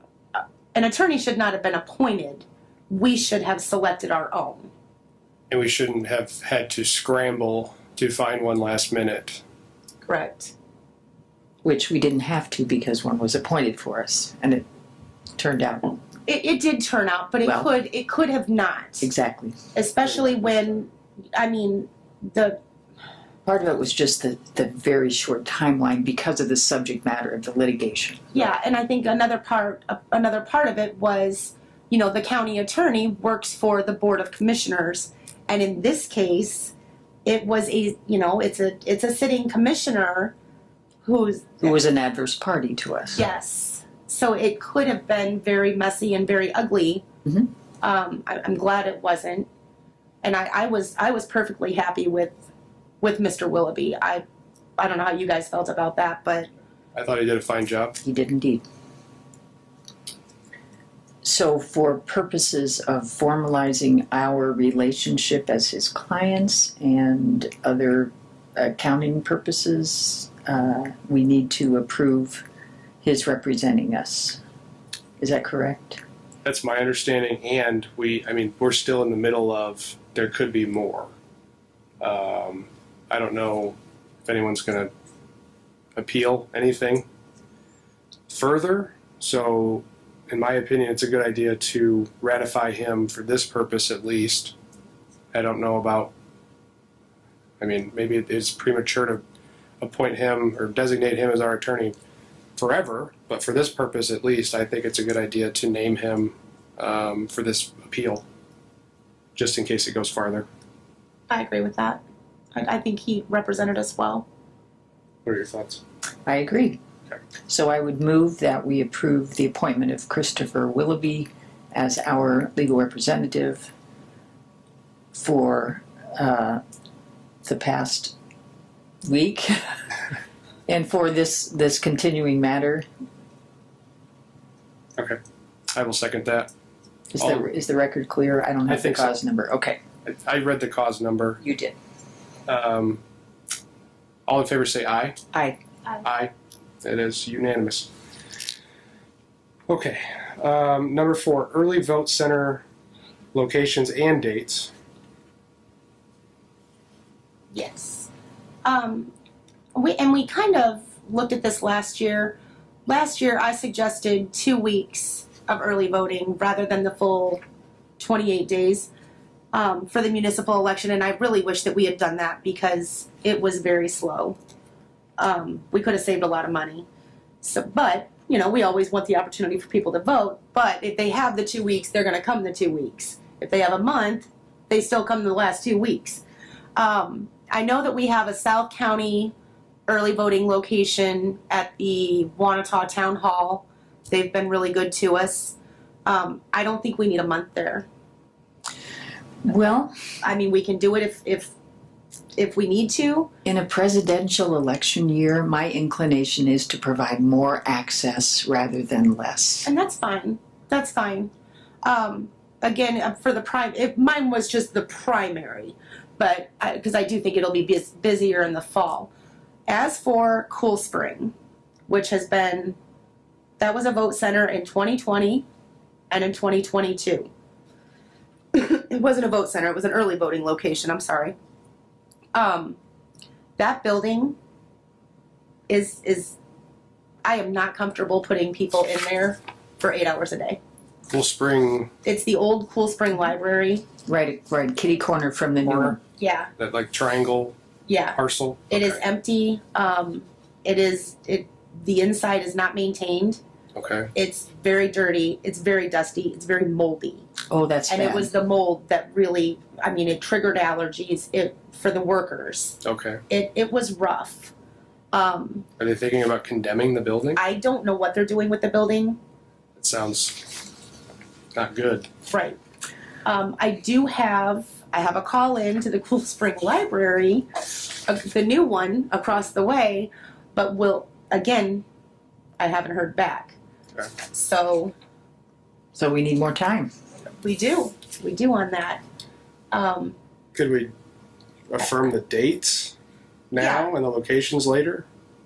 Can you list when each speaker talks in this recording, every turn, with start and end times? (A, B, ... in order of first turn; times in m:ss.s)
0:00.3-0:04.7 A
0:05.5-0:09.4 B
0:10.1-0:10.5 A
0:11.6-0:14.7 C
0:15.4-0:16.0 C
0:16.3-0:19.1 A
0:17.4-0:17.7 C
0:19.0-0:19.6 C
0:19.7-0:22.6 A
0:23.5-0:28.4 C
0:28.3-0:36.7 A
0:37.2-0:40.3 A
0:41.0-0:41.8 A
0:41.6-0:43.2 C
0:43.2-0:47.0 A
0:47.8-0:49.5 A
0:50.2-0:52.4 A
0:53.0-0:54.2 A
0:54.8-0:56.5 A
0:57.0-0:58.0 B
0:58.0-0:58.6 C
1:01.2-1:12.4 C
1:13.0-1:14.4 C
1:15.2-1:16.0 C
1:16.4-1:21.1 B
1:22.0-1:24.9 B
1:26.0-1:27.0 B
1:28.3-1:34.5 B
1:35.3-1:36.1 B
1:37.6-1:39.2 B
1:39.8-1:42.0 B
1:42.6-1:48.2 B
1:49.4-1:50.5 B
1:51.3-1:52.0 A
1:52.6-1:54.3 A
1:55.2-1:55.8 B
1:56.3-1:56.8 C
1:57.5-2:03.7 C
2:05.1-2:06.6 C
2:07.4-2:08.1 C
2:09.0-2:09.8 C
2:10.7-2:12.9 C
2:15.7-2:16.5 B
2:17.1-2:19.8 C
2:17.2-2:17.5 B
2:18.7-2:19.2 B
2:20.0-2:21.4 B
2:21.4-2:21.8 C
2:22.5-2:23.0 B
2:24.3-2:25.2 B
2:25.3-2:25.6 C
2:26.0-2:27.9 B
2:29.7-2:32.6 B
2:33.3-2:34.7 B
2:37.5-2:38.1 A
2:38.6-2:39.1 A
2:39.8-2:47.4 A
2:48.0-2:48.9 A
2:49.5-2:54.4 A
2:55.2-2:56.9 A
2:57.4-3:06.2 A
3:06.8-3:09.3 A
3:09.9-3:17.9 A
3:19.4-3:19.9 C
3:20.2-3:21.5 A
3:22.4-3:23.3 A
3:23.4-3:29.7 C
3:29.7-3:31.3 A
3:31.8-3:39.1 A
3:39.7-3:41.3 A
3:41.9-3:42.8 A
3:43.6-3:45.5 A
3:46.1-3:47.3 A
3:48.5-3:51.4 A
3:52.3-3:52.8 A
3:53.6-3:54.4 A
3:55.7-3:56.4 A
3:57.2-4:00.6 A
4:01.1-4:01.9 B
4:02.0-4:03.8 A
4:04.1-4:06.0 C
4:05.6-4:06.0 B
4:06.2-4:06.5 A
4:06.6-4:07.6 B
4:07.9-4:08.2 A
4:08.1-4:09.0 B
4:08.7-4:13.4 A
4:13.8-4:14.1 B
4:14.1-4:17.3 A
4:17.5-4:18.3 C
4:17.9-4:24.5 A
4:22.8-4:23.2 B
4:25.1-4:25.7 A
4:25.8-4:27.4 B
4:27.4-4:29.2 A
4:29.8-4:30.7 B
4:31.6-4:32.1 B
4:32.3-4:32.6 A
4:33.2-4:41.8 A
4:42.6-4:43.6 A
4:44.3-4:44.9 A
4:46.0-4:46.9 C
4:47.4-4:49.0 A
4:49.7-4:50.2 A
4:50.5-4:50.9 B
4:51.7-4:53.0 B
4:53.5-4:55.1 B
4:53.6-4:53.9 A